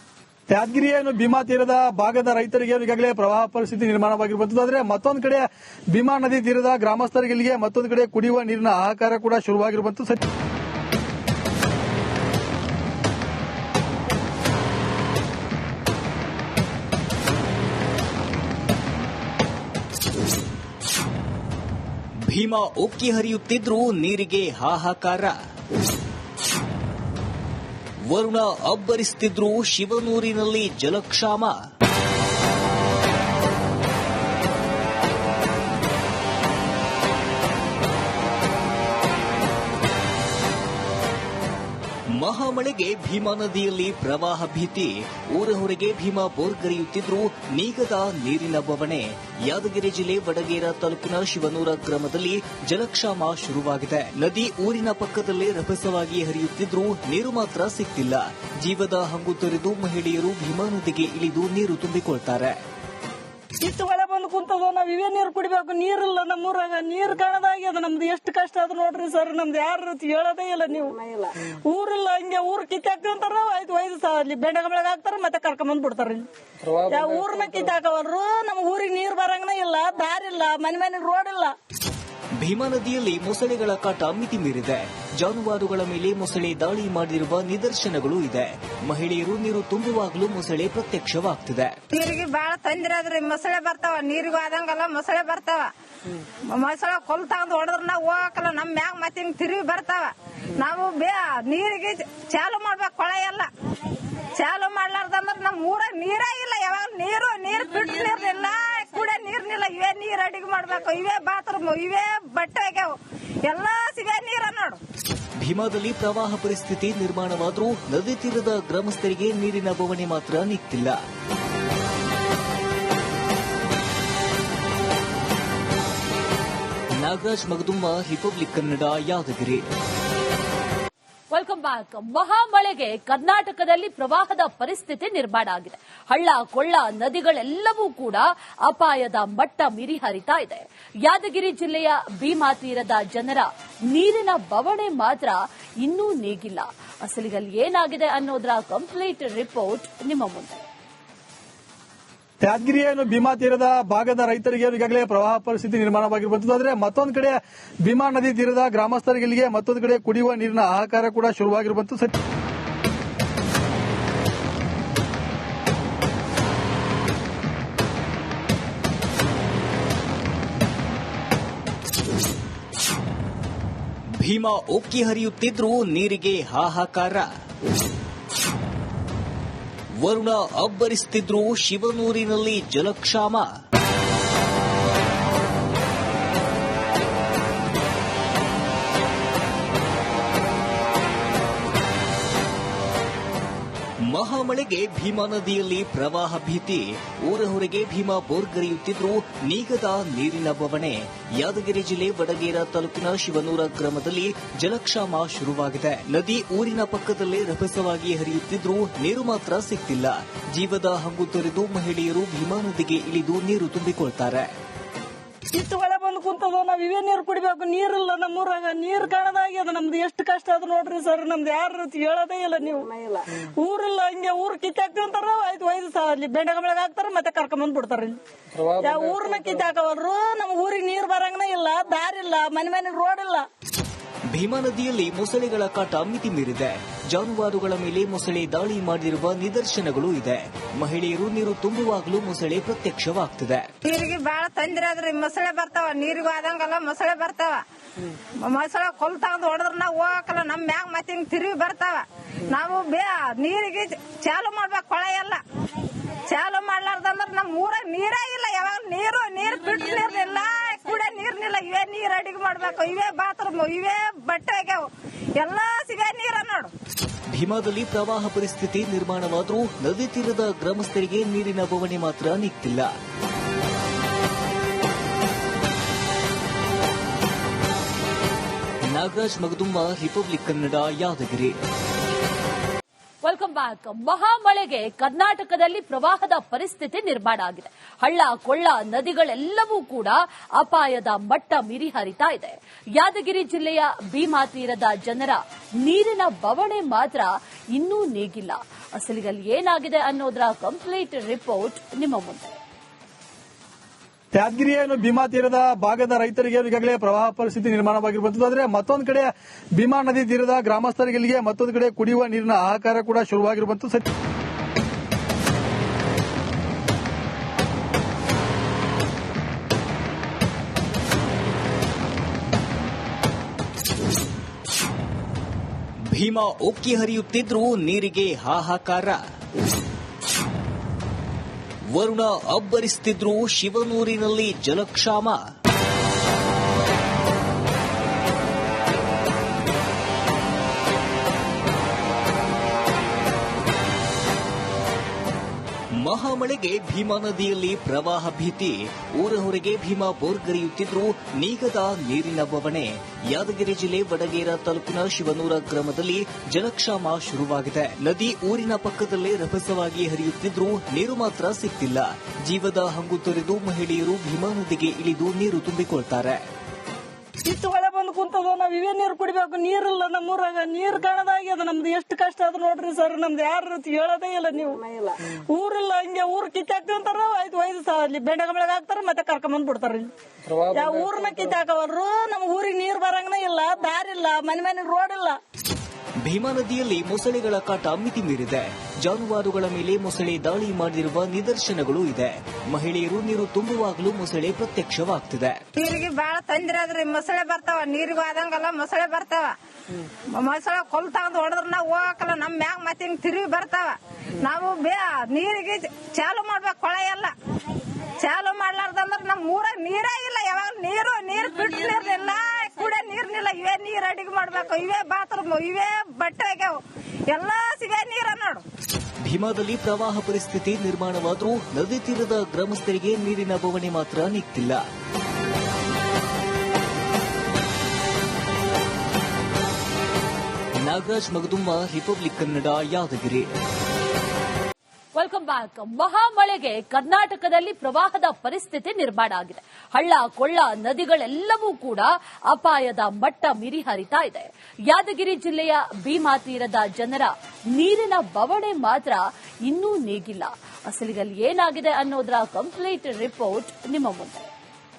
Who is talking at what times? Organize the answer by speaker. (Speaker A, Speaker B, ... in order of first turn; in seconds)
Speaker A: 0.5-10.2, 152.4-162.1, 304.3-314.1
Speaker B: 22.3-25.4, 28.1-31.6, 42.2-62.6, 82.4-91.8, 115.4-121.0, 127.0-129.7, 174.2-177.3, 180.0-183.5, 194.1-214.5, 234.3-243.7, 267.3-272.9, 278.9-281.6, 326.1-329.2, 331.9-335.4, 346.0-366.4, 386.2-395.6, 419.2-424.8, 430.8-433.5
Speaker C: 63.6-81.5, 215.5-233.5, 367.4-385.4
Speaker D: 91.9-95.7, 96.5-114.8, 243.8-247.7, 248.4-266.7, 395.8-399.6, 400.3-407.3, 408.2-418.6
Speaker E: 131.3-150.6, 283.2-302.6, 435.2-454.5